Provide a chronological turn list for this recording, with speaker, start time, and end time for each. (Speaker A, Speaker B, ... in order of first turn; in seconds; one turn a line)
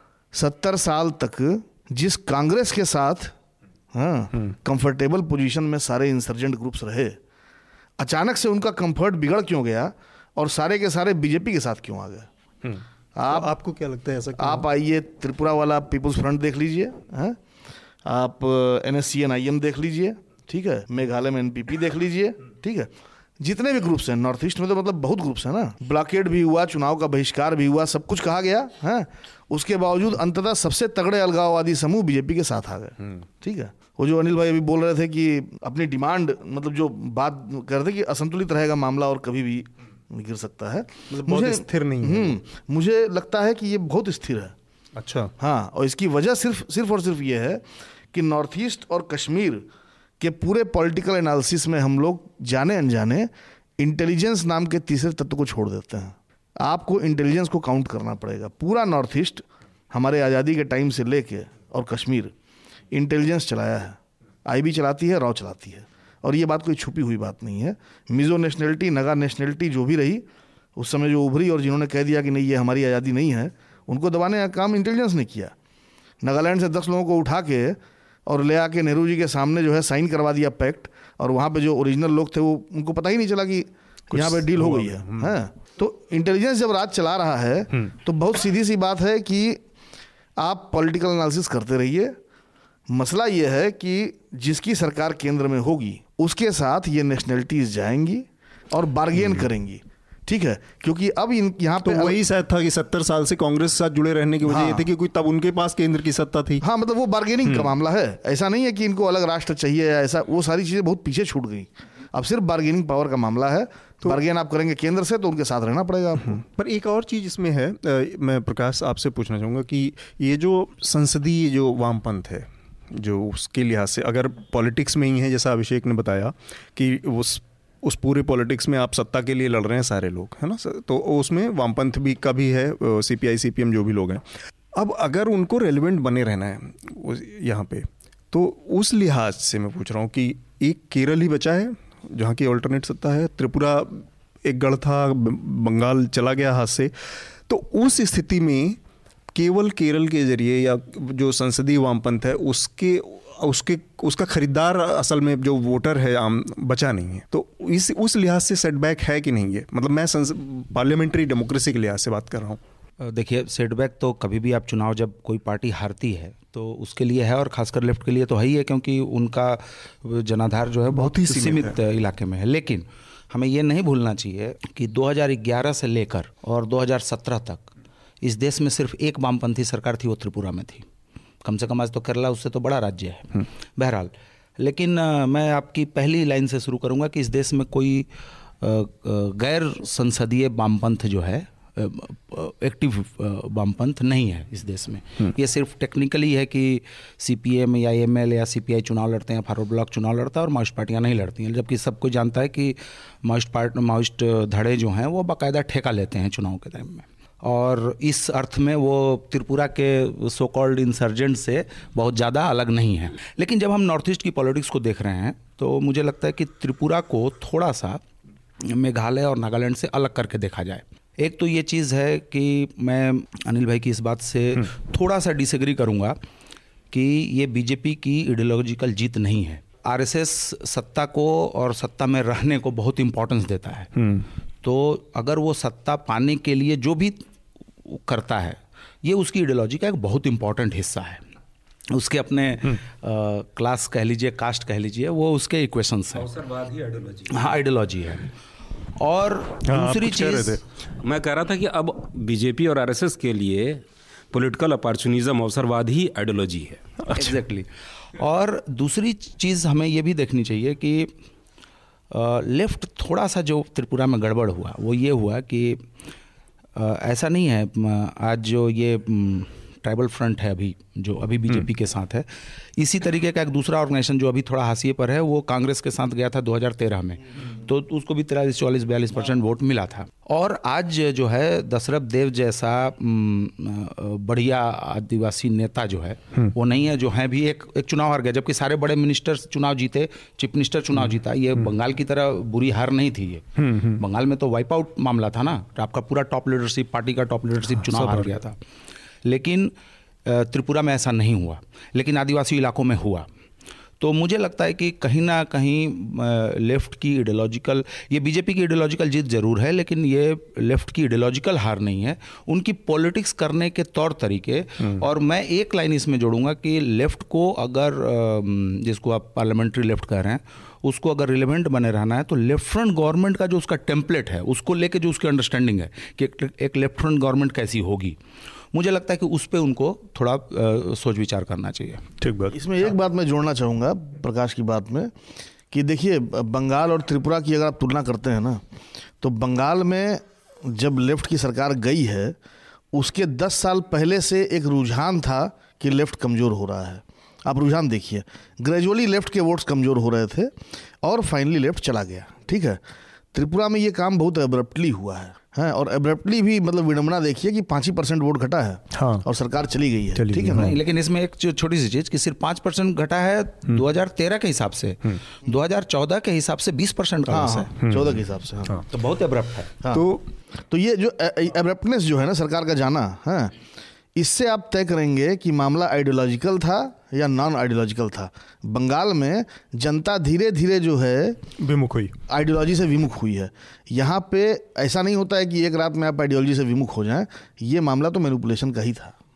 Speaker A: 0.3-3.3
Speaker A: 3.9-7.2
Speaker A: 8.0-12.3
Speaker B: 12.6-14.7
Speaker A: 13.2-13.5
Speaker A: 14.4-17.4
Speaker A: 18.0-44.5
Speaker B: 41.1-42.4
Speaker B: 45.0-45.3
Speaker A: 45.4-49.6
Speaker A: 50.2-62.3
Speaker A: 62.9-70.2
Speaker A: 70.8-75.5
Speaker A: 76.2-89.6
Speaker B: 84.1-85.4
Speaker A: 90.4-92.2
Speaker A: 92.9-102.2
Speaker B: 99.1-99.5
Speaker B: 101.8-106.6
Speaker A: 104.5-104.8
Speaker A: 106.6-116.4
Speaker B: 107.4-107.7
Speaker B: 116.2-134.2
Speaker B: 134.8-146.9
Speaker B: 147.5-148.8
Speaker B: 149.3-162.6
Speaker C: 163.0-177.7
Speaker B: 170.9-171.8
Speaker C: 178.2-180.8
Speaker C: 181.4-188.1
Speaker C: 188.6-218.0
Speaker C: 218.6-226.2
Speaker C: 226.9-233.9
Speaker B: 233.9-234.2
Speaker C: 234.6-237.2
Speaker C: 237.9-241.2
Speaker C: 241.9-246.3
Speaker D: 246.2-247.5
Speaker C: 247.3-248.3
Speaker C: 248.9-250.6
Speaker B: 249.6-250.6
Speaker D: 251.0-256.8
Speaker B: 257.0-257.3
Speaker C: 257.1-261.1
Speaker C: 262.1-265.8
Speaker C: 266.8-298.6
Speaker B: 293.6-294.0
Speaker B: 297.9-298.3
Speaker C: 299.2-299.7
Speaker C: 300.2-303.3
Speaker C: 304.0-328.2
Speaker C: 328.7-332.1
Speaker B: 332.2-332.6
Speaker A: 332.5-335.1
Speaker A: 335.7-338.6
Speaker A: 339.2-342.4
Speaker A: 342.9-352.8
Speaker A: 353.3-360.7
Speaker B: 358.9-359.2
Speaker B: 360.1-360.7
Speaker C: 360.5-367.7
Speaker A: 367.3-368.8
Speaker B: 367.8-368.8
Speaker C: 368.9-369.7
Speaker B: 369.9-370.3
Speaker A: 370.7-373.6
Speaker A: 374.1-381.4
Speaker B: 381.6-382.1
Speaker A: 382.3-389.1